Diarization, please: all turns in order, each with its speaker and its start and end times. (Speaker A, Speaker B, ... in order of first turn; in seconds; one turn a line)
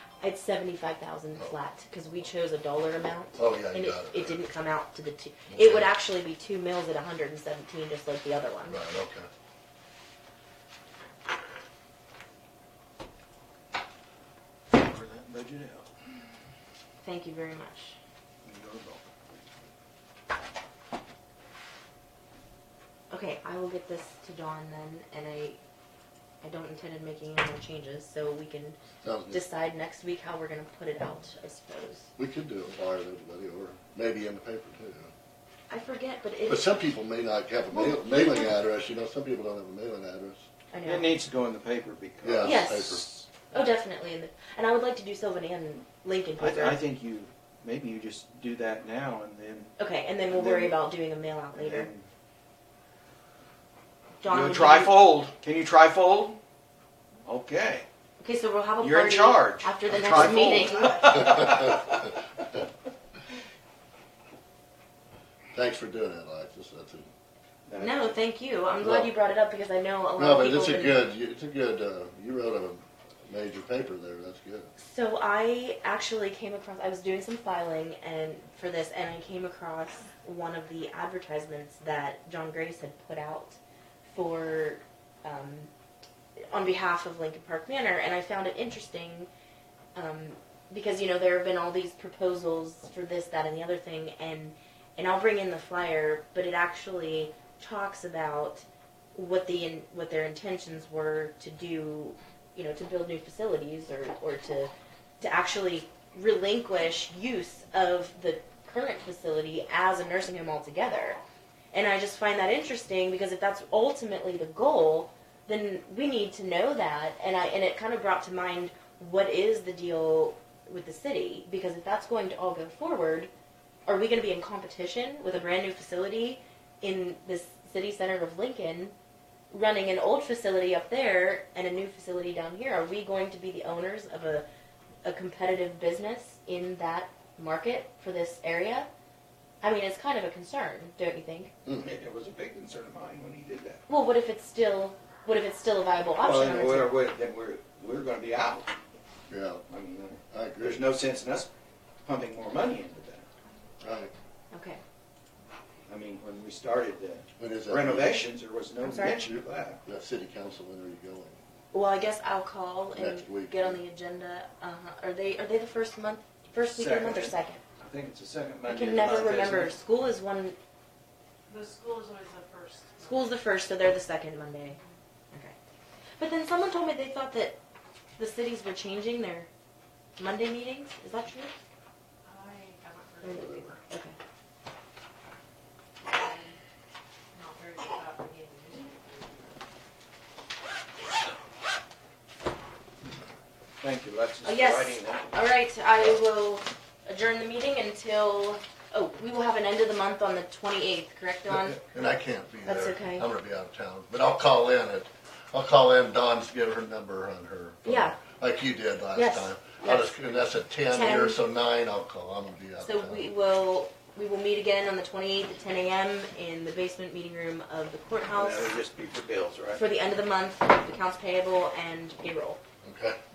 Speaker A: 0.2-8.8
Speaker B: 3.4-4.3
Speaker B: 5.5-5.8
Speaker B: 8.7-9.3
Speaker C: 14.7-15.9
Speaker A: 17.0-18.0
Speaker C: 18.4-19.0
Speaker A: 23.1-25.6
Speaker A: 26.4-28.8
Speaker B: 29.0-29.4
Speaker A: 29.3-32.1
Speaker B: 32.2-35.1
Speaker A: 35.7-36.8
Speaker B: 36.5-40.5
Speaker A: 37.7-38.5
Speaker A: 40.7-41.1
Speaker C: 40.8-42.8
Speaker B: 42.2-43.3
Speaker A: 42.4-46.8
Speaker C: 46.4-49.7
Speaker A: 49.8-51.9
Speaker C: 50.3-50.7
Speaker C: 51.5-52.0
Speaker A: 54.2-55.0
Speaker C: 54.3-56.4
Speaker C: 57.2-57.9
Speaker A: 58.2-61.5
Speaker C: 58.8-62.1
Speaker B: 61.1-61.8
Speaker B: 65.5-67.1
Speaker C: 67.7-67.9
Speaker A: 67.8-71.0
Speaker B: 68.8-69.1
Speaker B: 70.2-74.7
Speaker A: 74.8-85.7
Speaker A: 86.5-89.3
Speaker A: 89.9-111.2
Speaker A: 111.7-123.3
Speaker A: 123.9-128.9
Speaker A: 129.5-134.4
Speaker A: 135.0-138.9
Speaker A: 139.6-141.5
Speaker C: 141.7-143.8
Speaker A: 143.9-146.9
Speaker C: 146.2-148.7
Speaker B: 149.3-149.6
Speaker C: 149.7-151.5
Speaker B: 150.3-150.8
Speaker C: 152.0-153.3
Speaker B: 153.8-154.1
Speaker A: 154.5-154.8
Speaker C: 155.9-159.8
Speaker B: 157.4-158.3
Speaker A: 158.8-159.2
Speaker B: 159.2-161.4
Speaker A: 161.7-167.6
Speaker B: 162.9-163.8
Speaker C: 166.7-169.7
Speaker A: 168.7-170.6
Speaker D: 171.5-173.1
Speaker A: 173.0-174.8
Speaker A: 176.2-177.6
Speaker A: 178.2-179.5
Speaker A: 180.2-181.5
Speaker D: 182.2-183.8
Speaker A: 183.2-184.2
Speaker D: 186.0-186.6
Speaker D: 187.3-189.5
Speaker C: 193.8-195.3
Speaker A: 194.4-201.8
Speaker B: 201.9-213.2
Speaker A: 202.6-203.3
Speaker A: 207.8-208.2
Speaker A: 209.1-211.4
Speaker A: 212.8-218.7
Speaker C: 218.3-219.8
Speaker A: 219.7-222.6
Speaker B: 222.8-223.2